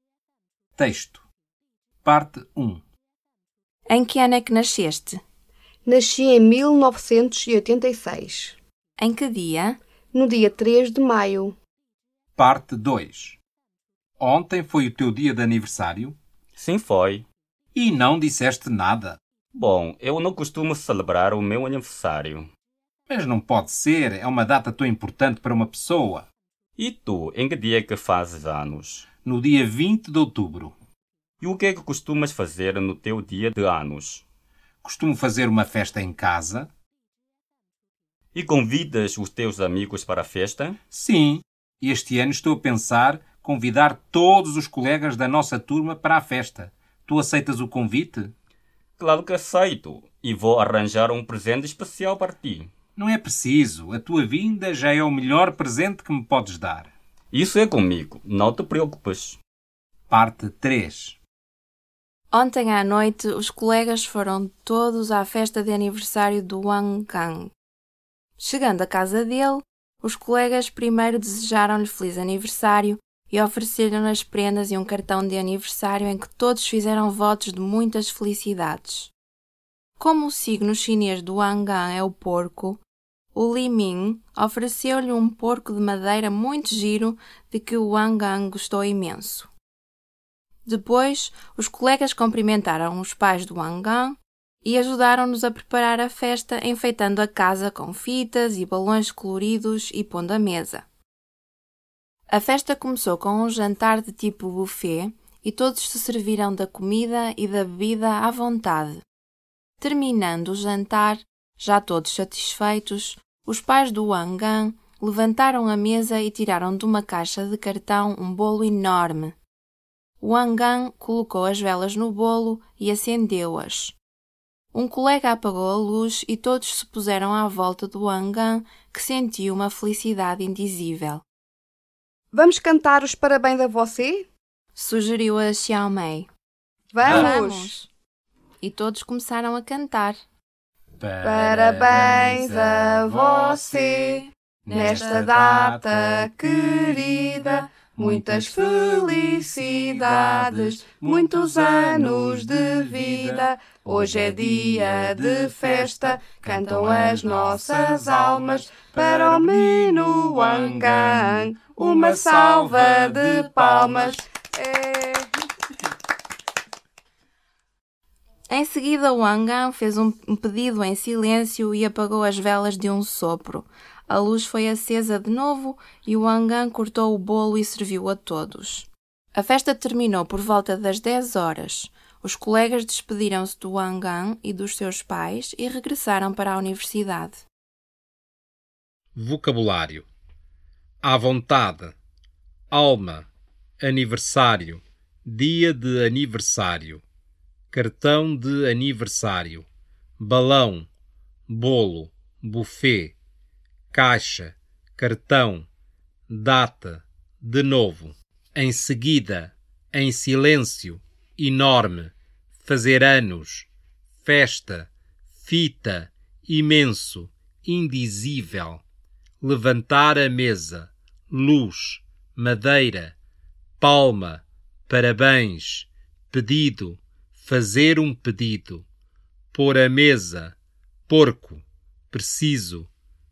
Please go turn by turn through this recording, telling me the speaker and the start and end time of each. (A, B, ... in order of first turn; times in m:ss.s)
0:00.8-0:01.2 A
0:02.0-0:02.8 A
0:03.9-0:05.2 B
0:05.9-0:08.6 C
0:09.0-0:09.8 B
0:10.1-0:11.6 C
0:12.4-0:13.4 A
0:14.2-0:16.2 A
0:16.6-0:17.2 D
0:17.8-0:19.2 A
0:19.5-0:22.5 D
0:23.1-0:26.2 A
0:26.8-0:29.1 D
0:29.2-0:30.7 A
0:31.4-0:34.2 D
0:34.8-0:36.7 A
0:38.3-0:40.8 D
0:40.9-0:48.3 A
0:49.0-0:52.7 D
0:53.0-0:56.9 A
0:57.3-0:59.4 D
1:00.1-1:01.2 A
1:02.3-1:07.5 B
1:08.4-1:19.1 B
1:20.0-1:22.8 B
1:23.3-1:29.5 B
1:30.7-1:40.8 B
1:42.3-1:49.0 B
1:49.8-1:59.4 B
2:00.2-2:04.0 B
2:04.7-2:11.2 B
2:12.3-2:14.3 C
2:14.8-2:16.3 B
2:16.9-2:17.8 C
2:17.0-2:17.9 B
2:17.0-2:17.4 A
2:18.6-2:20.2 B
2:21.0-2:24.0 A
2:21.2-2:45.3 C
2:24.7-2:27.0 A
2:24.7-2:25.2 B
2:28.0-2:44.2 A
2:48.5-3:07.4 B
3:09.2-3:10.1 A
3:11.0-3:12.0 A
3:12.7-3:13.3 A
3:13.8-3:17.0 A
3:17.7-3:19.7 A
3:20.2-3:20.9 A
3:21.5-3:23.2 A
3:23.9-3:25.7 A
3:26.3-3:33.7 A
3:34.2-3:34.9 A
3:35.4-3:38.8 A
3:39.4-3:43.2 A
3:43.8-3:48.9 A
3:49.5-3:50.6 A
3:51.1-3:52.9 A